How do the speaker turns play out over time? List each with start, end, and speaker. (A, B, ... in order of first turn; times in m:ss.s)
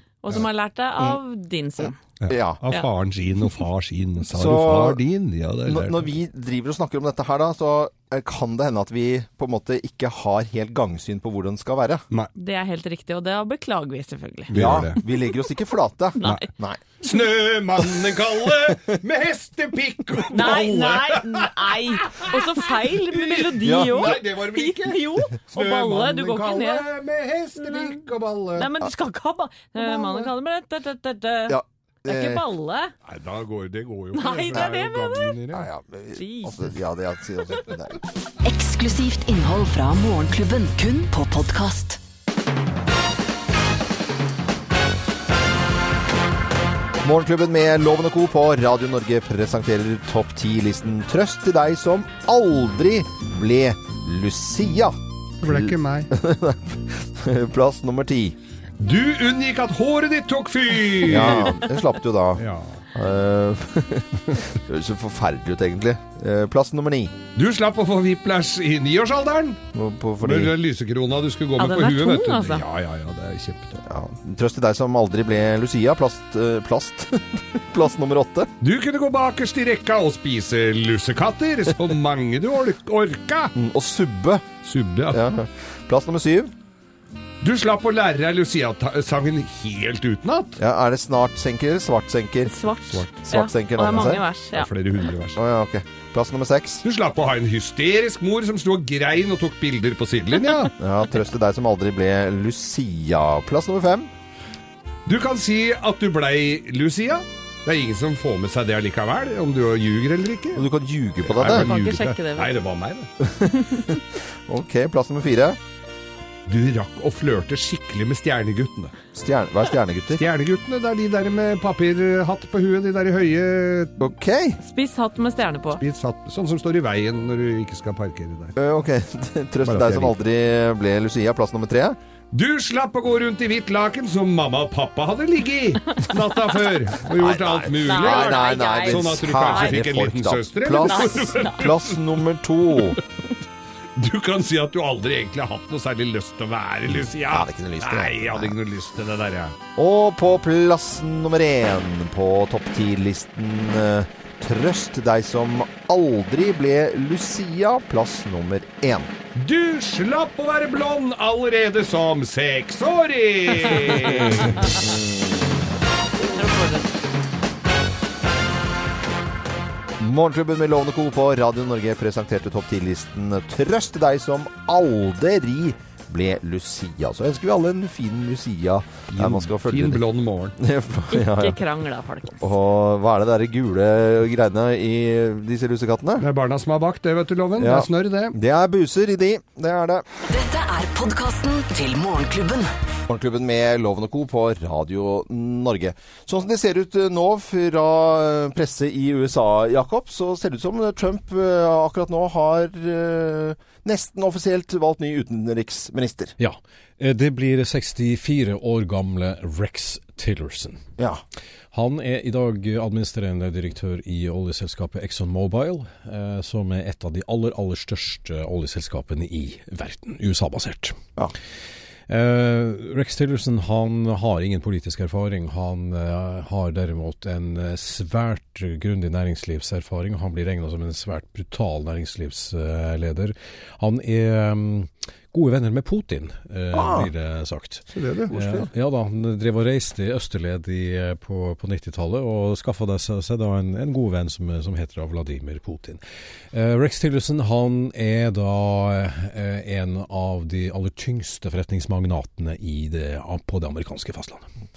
0:00.2-0:02.0 A
0:02.2-0:06.1 B
0:02.3-0:02.6 C
0:04.3-0:05.0 C
0:05.6-0:12.0 C
0:12.4-0:14.6 A
0:14.5-0:15.0 B
0:14.5-0:16.8 C
0:16.2-0:16.5 A
0:17.0-0:28.7 B
0:18.0-0:18.9 C
0:20.3-0:26.8 A
0:23.6-0:24.2 C
0:27.6-0:28.0 A
0:28.5-0:32.9 A
0:31.5-0:32.4 C
0:33.0-0:35.7 B
0:34.1-0:35.3 A
0:35.5-0:38.0 C
0:36.2-0:36.7 A
0:38.4-0:42.0 D
0:47.0-0:58.4 C
0:55.4-0:56.1 B
0:58.8-1:01.6 B
1:01.0-1:07.2 C
1:02.4-1:02.8 B
1:07.3-1:09.6 B
1:09.7-1:10.5 C
1:10.2-1:13.8 B
1:11.6-1:12.6 A
1:13.8-1:18.5 C
1:18.6-1:23.5 B
1:23.5-1:24.5 C
1:24.6-1:25.3 B
1:25.1-1:26.5 C
1:27.4-1:30.6 B
1:30.6-1:32.5 C
1:32.4-1:34.7 A
1:33.2-1:34.2 C
1:33.9-1:35.4 B
1:35.4-1:36.8 C
1:36.8-1:40.7 B
1:40.8-1:44.1 C
1:45.0-1:50.6 B
1:50.5-1:51.7 C
1:51.2-1:53.1 B
1:51.4-1:52.5 A
1:53.2-1:55.6 C
1:56.5-1:58.9 B
1:59.1-2:00.2 C
2:00.2-2:04.0 B
2:04.0-2:04.6 C
2:04.6-2:05.8 A
2:05.8-2:08.5 B
2:08.6-2:12.0 C
2:09.6-2:10.1 B
2:12.3-2:22.0 B
2:17.1-2:23.0 C
2:17.8-2:19.8 A
2:20.8-2:21.5 A
2:24.0-2:29.6 B
2:27.0-2:28.5 C
2:29.8-2:39.1 C
2:39.3-2:44.7 B
2:44.4-2:44.6 A
2:44.6-2:45.6 C
2:46.3-2:46.9 A
2:50.0-3:00.0 C
2:59.1-3:00.6 B
3:00.6-3:01.6 C
3:01.1-3:02.4 A
3:02.3-3:06.2 C
3:06.2-3:08.4 B
3:07.6-3:10.0 C
3:10.3-3:12.7 D
3:13.1-3:26.3 C
3:26.4-3:30.8 E
3:31.7-3:41.0 E
3:42.1-4:14.4 E
3:56.7-3:57.1 C
3:57.9-3:58.6 B